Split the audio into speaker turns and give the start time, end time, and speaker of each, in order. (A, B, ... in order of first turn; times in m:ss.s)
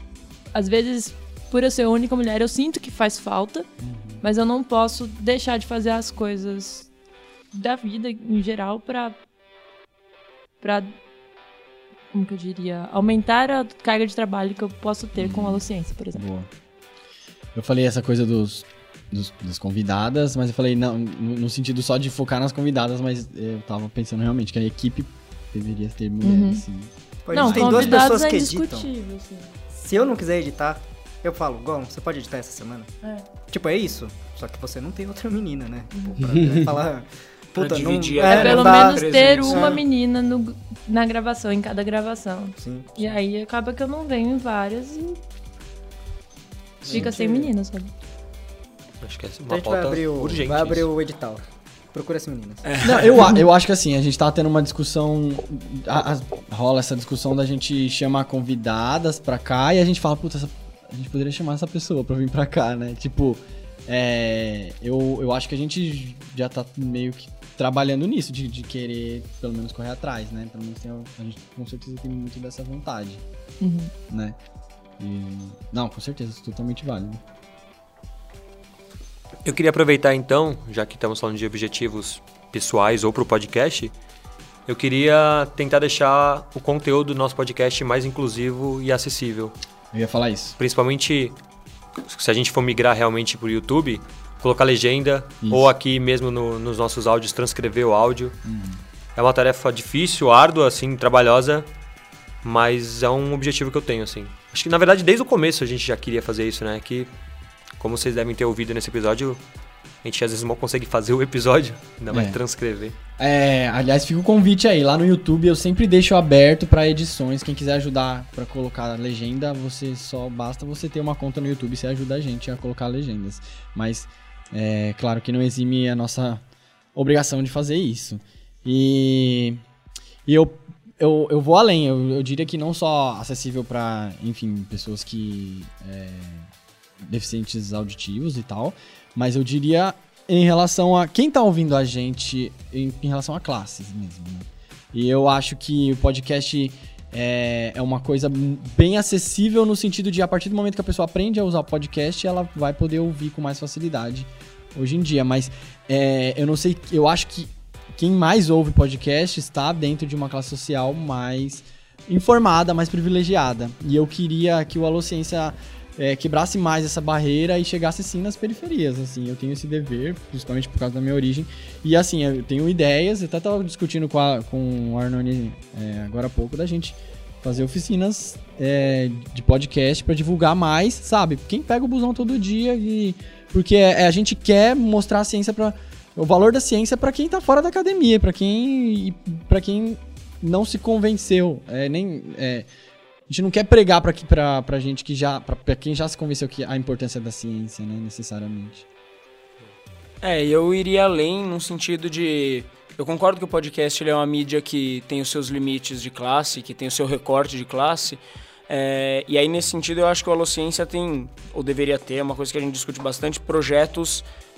0:00.5-0:03.7 A
0:03.8-0:04.2 B
0:04.2-0:06.9 A
0:07.5-0:09.2 A
0:10.6-0:10.9 A
0:12.1-0:16.2 A
0:15.2-0:16.5 B
0:17.5-0:28.1 B
0:26.2-0:26.6 A
0:27.2-0:28.9 C
0:27.3-0:29.5 A
0:29.7-0:32.9 C
0:33.5-0:39.8 C
0:35.9-0:36.4 A
0:37.5-0:39.8 D
0:38.2-0:45.2 A
0:42.6-0:43.1 C
0:46.8-0:47.9 A
0:46.9-0:47.5 C
0:49.0-0:50.9 E
0:49.5-0:51.4 C
0:51.9-0:52.6 C
0:52.6-0:53.4 D
0:52.8-1:13.2 B
1:13.6-1:13.9 A
1:14.1-1:14.4 B
1:15.0-1:17.2 B
1:19.4-1:23.9 E
1:24.7-1:29.5 E
1:29.9-1:30.6 B
1:30.6-1:31.4 E
1:32.0-1:38.4 E
1:35.4-1:35.7 B
1:38.4-1:38.8 B
1:39.2-1:41.7 E
1:42.4-1:47.1 E
1:47.8-1:49.4 E
1:50.0-1:52.9 E
1:52.1-1:52.4 B
1:53.2-2:06.4 B
2:06.9-2:09.6 B
2:10.2-2:16.5 B
2:17.0-3:12.7 B
3:13.3-3:18.8 B
3:20.2-3:34.2 D